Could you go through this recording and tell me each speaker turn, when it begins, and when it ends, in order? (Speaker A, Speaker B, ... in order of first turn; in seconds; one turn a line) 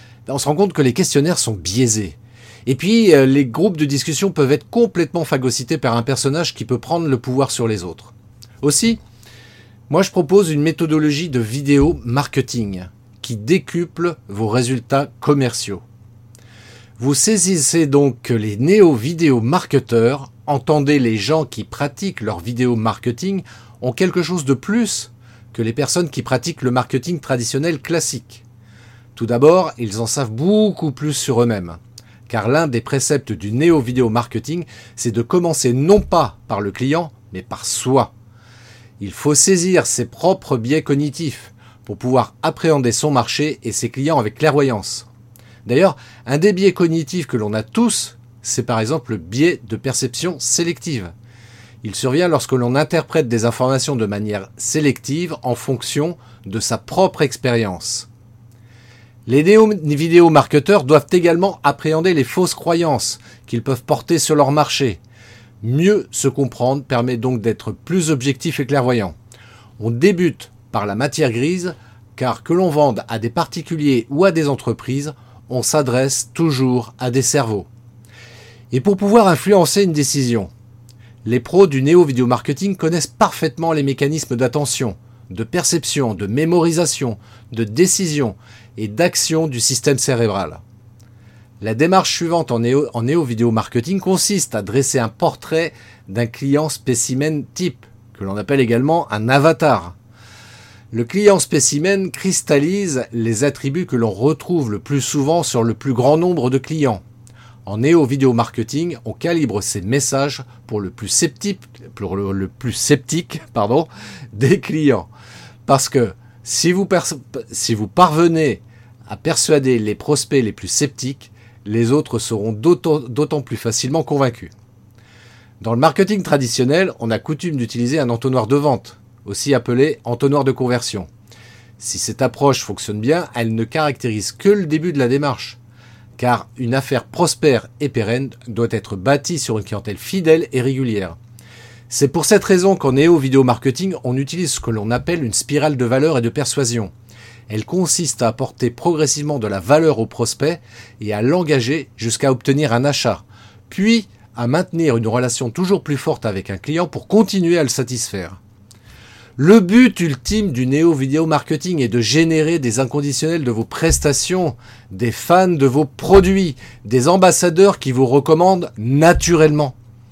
Speaker A: 0.3-9.0
Speaker A: 9.9-15.8
Speaker A: 17.0-28.4
Speaker A: 29.2-38.1
Speaker A: 39.0-45.1
Speaker A: 45.6-51.1
Speaker A: 51.8-58.1
Speaker A: 59.2-65.0
Speaker A: 65.6-69.1
Speaker A: 69.8-77.7
Speaker A: 78.7-80.5
Speaker A: 81.2-90.6
Speaker A: 91.6-99.9
Speaker A: 100.9-107.0
Speaker A: 107.7-115.1
Speaker A: 115.7-124.5
Speaker A: 125.6-131.1
Speaker A: 131.8-135.6
Speaker A: 136.2-141.2
Speaker A: 141.9-146.9
Speaker A: 147.5-158.4
Speaker A: 159.4-169.8